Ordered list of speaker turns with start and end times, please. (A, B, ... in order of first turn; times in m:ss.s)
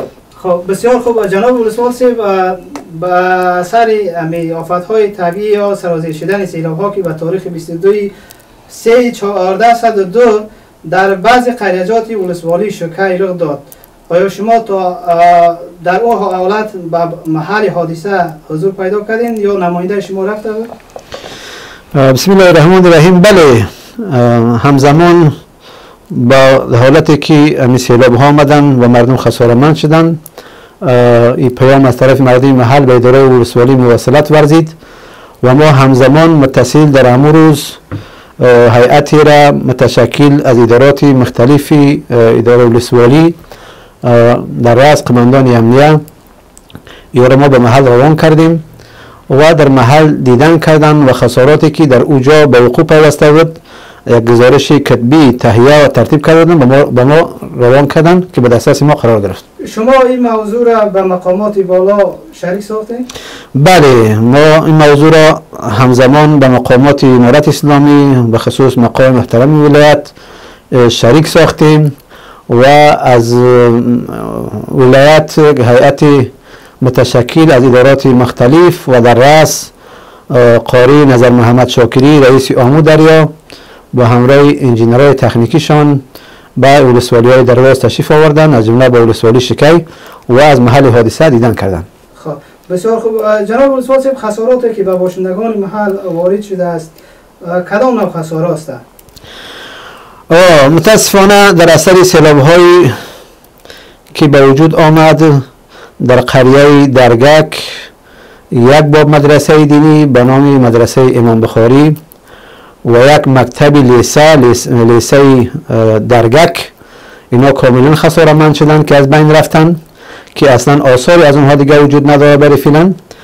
0:00.4-0:08.1 A
0:08.7-0:20.7 A
0:21.9-0:25.3 B
0:26.1-0:30.2 B
0:30.8-0:34.7 B
0:35.4-0:37.8 B
0:38.4-0:43.4 B
0:44.0-0:46.0 B
0:47.1-0:48.6 B
0:49.3-0:59.4 B
0:59.6-1:03.1 A
1:03.5-1:10.1 B
1:10.7-1:11.9 B
1:12.5-1:19.7 B
1:20.3-1:23.3 B
1:23.9-1:26.0 B
1:26.6-1:31.8 B
1:32.2-1:36.9 A
1:37.4-1:38.8 A
1:40.3-1:43.0 B
1:44.1-1:45.4 B
1:46.0-1:47.7 B
1:48.5-1:52.0 B
1:52.8-1:56.7 B
1:57.3-1:59.8 B
2:00.3-2:03.0 B